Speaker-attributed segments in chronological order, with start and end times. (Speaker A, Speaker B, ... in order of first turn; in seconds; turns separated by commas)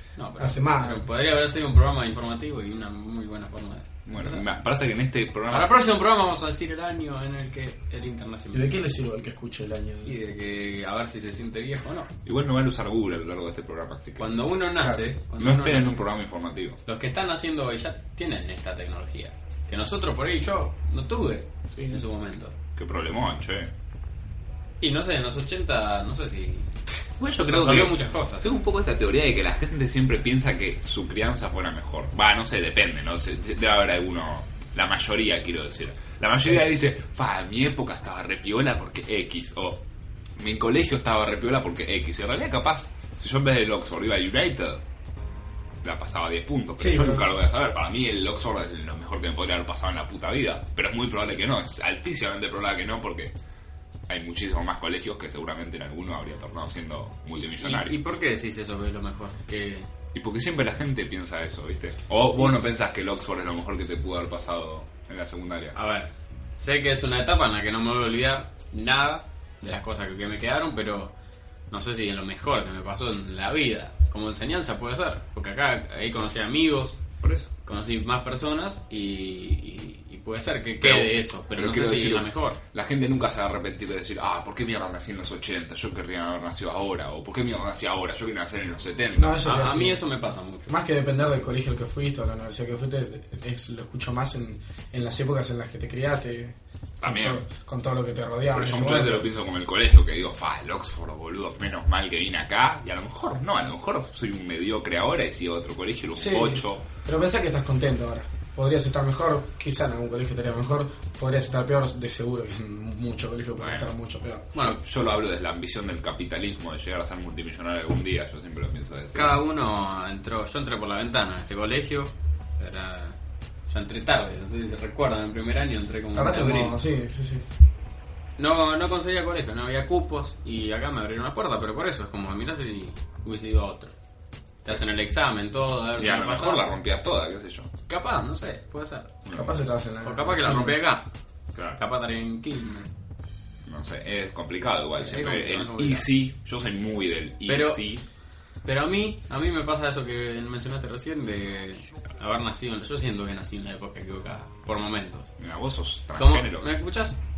Speaker A: 0.1-4.4, Speaker B: 0.4-1.0, Speaker C: 4.0-5.9, Speaker A: 5.5-8.8, Speaker B: 8.5-10.2, Speaker A: 10.0-12.1, Speaker C: 12.2-14.3, Speaker A: 14.2-16.1, Speaker C: 15.4-16.8, Speaker A: 16.9-22.5, Speaker C: 21.7-22.0, Speaker C: 22.7-23.7, Speaker A: 24.8-26.7, Speaker C: 27.2-39.8, Speaker A: 27.4-28.5, Speaker C: 40.4-44.8, Speaker C: 45.8-53.3, Speaker B: 46.8-47.3, Speaker C: 54.1-58.0, Speaker A: 57.6-59.9, Speaker C: 60.1-65.7, Speaker A: 65.7-71.1, Speaker A: 71.7-77.0, Speaker C: 77.2-77.5, Speaker A: 77.6-82.6, Speaker C: 80.8-89.6, Speaker B: 89.1-90.0, Speaker A: 89.4-90.7, Speaker B: 90.7-99.3, Speaker C: 97.0-97.4, Speaker C: 98.5-106.8, Speaker B: 106.1-114.5, Speaker C: 113.6-113.9, Speaker A: 114.5-114.8, Speaker C: 114.6-119.4, Speaker A: 119.1-126.8, Speaker B: 126.1-127.5, Speaker A: 128.4-133.9, Speaker A: 134.6-136.8, Speaker C: 136.0-137.7, Speaker A: 137.9-139.2, Speaker C: 139.2-139.6, Speaker B: 139.3-140.9, Speaker A: 140.0-141.1, Speaker C: 141.5-141.8, Speaker A: 141.7-142.9, Speaker C: 143.7-148.0, Speaker A: 145.0-146.1, Speaker A: 147.4-147.8, Speaker A: 148.6-155.3, Speaker C: 155.4-156.7, Speaker A: 156.2-157.2